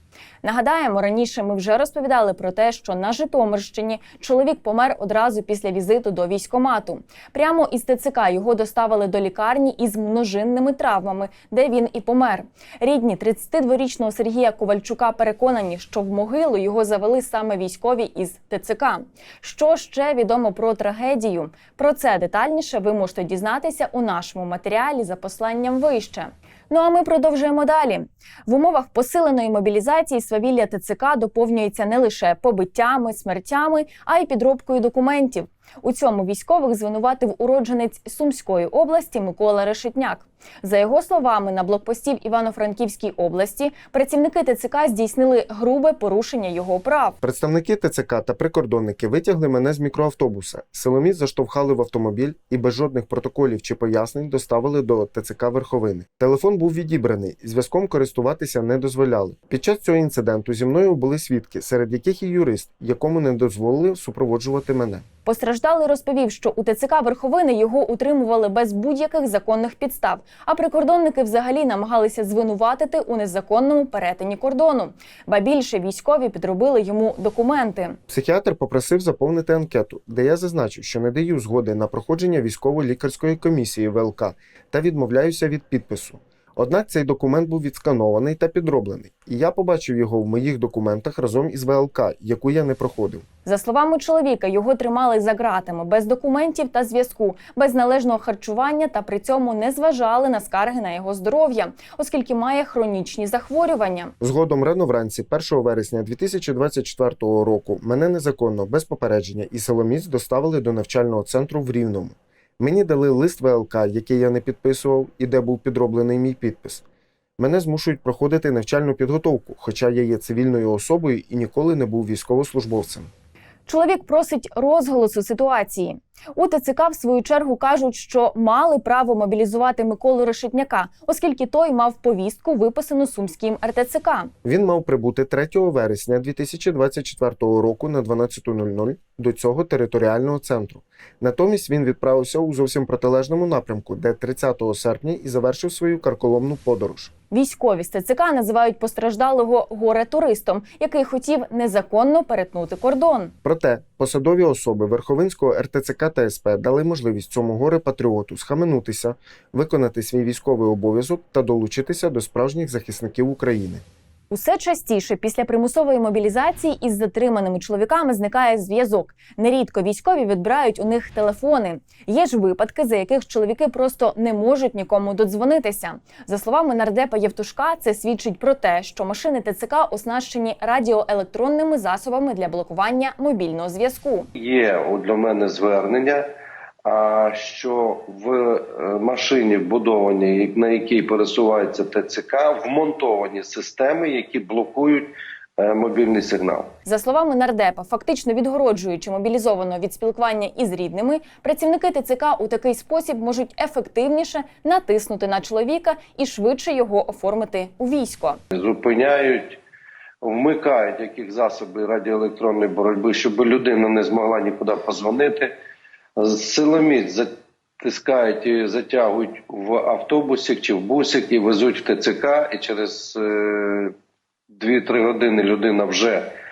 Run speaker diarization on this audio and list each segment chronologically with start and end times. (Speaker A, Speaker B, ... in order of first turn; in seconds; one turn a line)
Speaker A: 0.4-47.2
Speaker B: 47.2-65.0
Speaker A: 65.2-78.0
Speaker B: 78.1-93.2
Speaker A: 93.4-104.1
Speaker B: 104.2-116.8
Speaker B: 117.4-123.1
Speaker A: 123.7-134.3
Speaker B: 134.4-147.1
Speaker A: 147.3-153.3
Speaker B: 153.4-163.8
Speaker A: 164.3-184.3
Speaker C: 184.4-186.3
Speaker C: 186.8-196.7
Speaker A: 196.8-208.4
Speaker C: 208.5-209.6
Speaker C: 210.2-215.6
Speaker C: 216.2-223.9
Speaker C: 224.5-226.3